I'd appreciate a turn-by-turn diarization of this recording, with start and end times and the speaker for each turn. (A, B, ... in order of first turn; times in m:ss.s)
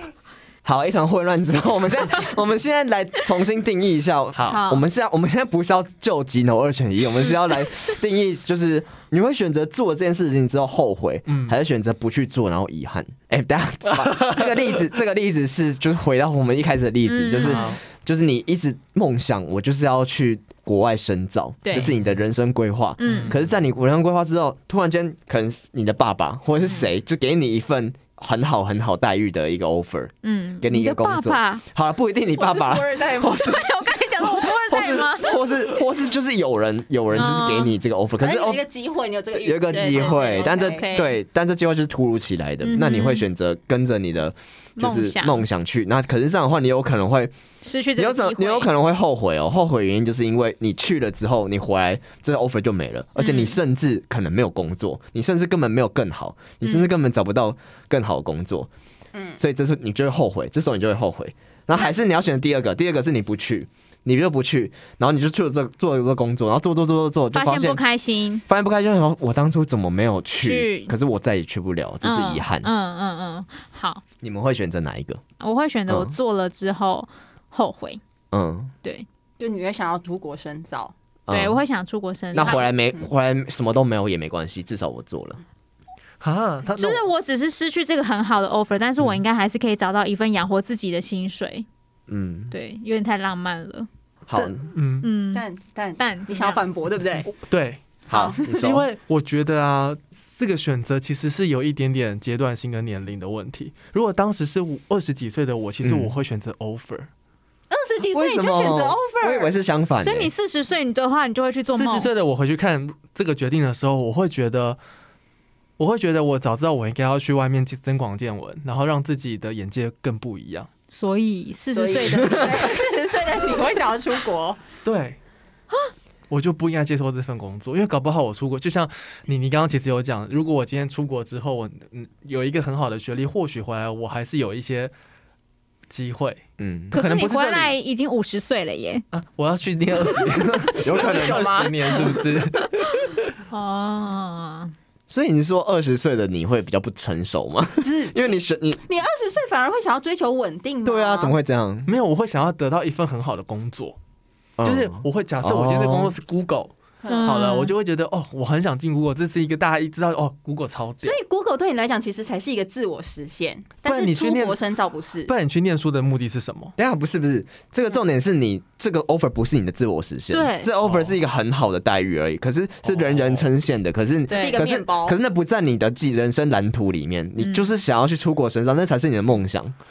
0:00.6-0:33.6 A
0:04.5-0:04.8 B
0:11.3-0:11.6 C
0:14.1-0:14.3 C
0:17.1-0:17.7 B
0:17.4-0:17.8 C
0:21.6-0:21.9 B
0:21.9-0:22.2 C
0:23.0-0:23.4 B
0:23.0-0:23.4 C
0:30.2-0:31.6 B
0:32.4-0:33.6 D
0:33.4-0:35.5 B
0:34.2-0:38.6 A
0:37.2-0:37.8 B
0:38.2-0:41.1 D
0:39.4-0:47.3 A
0:39.9-0:41.2 B
0:42.6-0:43.3 B
0:44.8-0:45.4 B
0:47.6-0:48.7 B
0:48.0-0:58.7 A
0:53.2-0:53.6 B
0:56.6-0:56.9 B
0:59.1-0:59.4 D
0:59.4-1:07.8 A
1:07.3-1:08.4 B
1:08.5-1:12.7 A
1:10.4-1:11.0 B
1:12.0-1:14.0 B
1:14.2-1:15.2 A
1:15.4-1:18.0 B
1:18.3-1:18.7 A
1:19.4-1:20.9 D
1:21.3-1:21.6 A
1:21.3-1:22.7 B
1:22.3-1:25.4 A
1:22.5-1:23.1 D
1:26.2-1:27.1 C
1:26.7-1:31.7 B
1:32.1-1:32.5 A
1:32.5-1:33.9 B
1:34.3-1:34.7 A
1:34.4-1:35.1 C
1:35.0-1:35.5 B
1:35.3-1:37.3 D
1:36.0-1:36.6 B
1:37.3-1:47.1 C
1:38.1-1:38.9 A
1:38.1-1:38.4 D
1:45.8-1:46.1 A
1:47.7-1:49.5 D
1:48.1-1:50.3 A
1:50.0-1:52.1 B
1:51.8-1:54.8 C
1:55.8-2:00.7 C
2:00.9-2:02.7 B
2:01.7-2:04.6 D
2:04.8-2:05.2 C
2:06.3-2:14.9 C
2:15.9-2:17.8 C
2:16.6-2:17.0 A
2:16.9-2:19.0 B
2:19.1-2:23.2 C
2:20.8-2:21.5 A
2:20.9-2:22.2 D
2:23.5-2:24.7 B
2:25.1-2:28.8 A
2:27.8-2:28.1 D
2:28.9-2:31.4 D
2:30.8-2:31.9 A
2:31.9-2:34.0 C
2:34.6-2:36.1 A
2:34.6-2:41.2 C
2:37.0-2:37.4 D
2:37.1-2:37.7 B
2:41.0-2:45.3 D
2:43.8-2:44.6 C
2:45.3-2:46.7 C
2:46.8-2:59.8 A
2:50.3-2:50.7 B
2:50.8-2:51.2 C
2:52.8-2:53.5 C
2:54.3-2:55.2 D
2:54.3-2:54.6 B
2:57.4-2:57.7 B